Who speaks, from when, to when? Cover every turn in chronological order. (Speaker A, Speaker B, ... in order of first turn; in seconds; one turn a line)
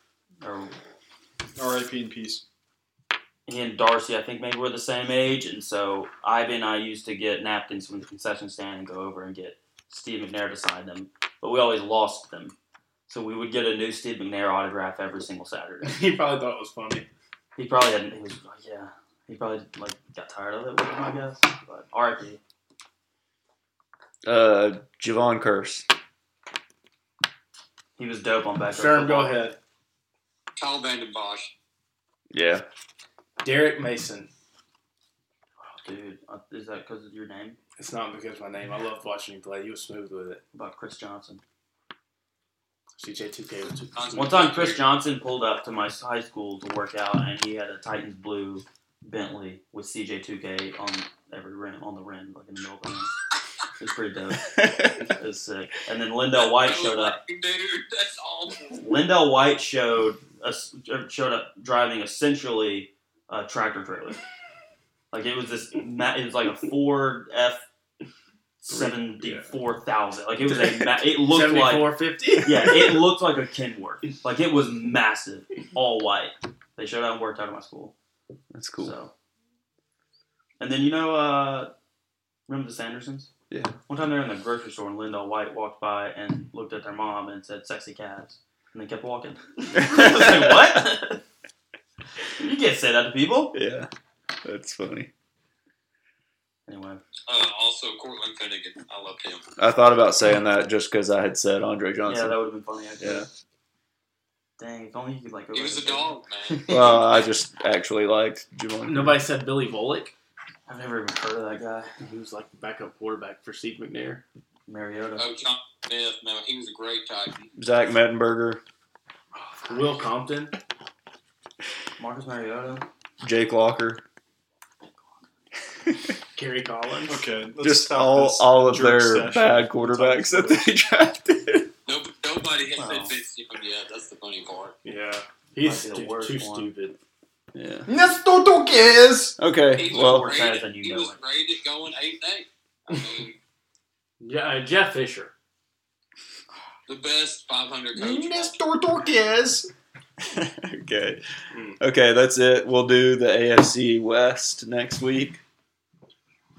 Speaker A: 0.4-0.7
Speaker B: 1.6-2.4
Speaker A: 3.5-12.5
Speaker A: 13.1-16.0
Speaker C: 15.8-17.1
Speaker A: 17.6-22.4
Speaker D: 24.2-25.9
Speaker A: 28.0-29.4
Speaker C: 28.7-29.6
Speaker E: 30.6-31.5
Speaker D: 32.3-32.6
Speaker C: 33.4-34.3
Speaker A: 35.6-37.6
Speaker C: 37.8-40.4
Speaker A: 40.5-41.4
Speaker C: 43.0-44.1
Speaker E: 43.9-44.8
Speaker A: 44.1-53.1
Speaker A: 53.8-57.2
Speaker D: 54.6-55.0
Speaker E: 56.4-58.8
Speaker A: 58.7-64.2
Speaker A: 65.1-67.6
Speaker A: 68.6-71.9
Speaker C: 68.7-69.5
Speaker C: 70.5-73.0
Speaker A: 72.4-77.9
Speaker D: 78.5-78.9
Speaker A: 78.8-79.1
Speaker A: 80.6-81.7
Speaker A: 82.5-83.3
Speaker D: 83.5-83.8
Speaker A: 83.9-91.2
Speaker D: 89.8-90.6
Speaker A: 92.4-93.5
Speaker D: 93.5-93.9
Speaker D: 94.4-95.1
Speaker A: 96.7-97.0
Speaker E: 97.3-99.4
Speaker D: 99.6-102.4
Speaker A: 102.0-103.3
Speaker D: 103.0-103.3
Speaker A: 104.6-107.0
Speaker E: 105.5-107.0
Speaker D: 106.7-109.2
Speaker C: 108.8-110.1
Speaker A: 110.7-111.9
Speaker C: 112.0-114.2
Speaker A: 114.7-115.3
Speaker E: 115.2-117.5
Speaker D: 117.5-118.6
Speaker C: 119.7-120.6
Speaker A: 122.0-122.8
Speaker D: 123.2-124.0
Speaker C: 126.3-127.3
Speaker B: 127.0-130.7
Speaker D: 127.6-131.7
Speaker E: 131.9-134.8
Speaker A: 132.8-133.2
Speaker C: 134.8-136.9
Speaker A: 135.6-136.7
Speaker D: 137.5-137.9
Speaker B: 137.9-139.4
Speaker D: 139.4-140.3
Speaker E: 139.7-143.4
Speaker A: 139.9-141.2
Speaker C: 142.9-143.2
Speaker C: 144.2-145.3
Speaker E: 146.9-148.5
Speaker B: 147.9-149.7
Speaker D: 150.2-151.2
Speaker C: 151.5-151.8
Speaker D: 151.8-155.4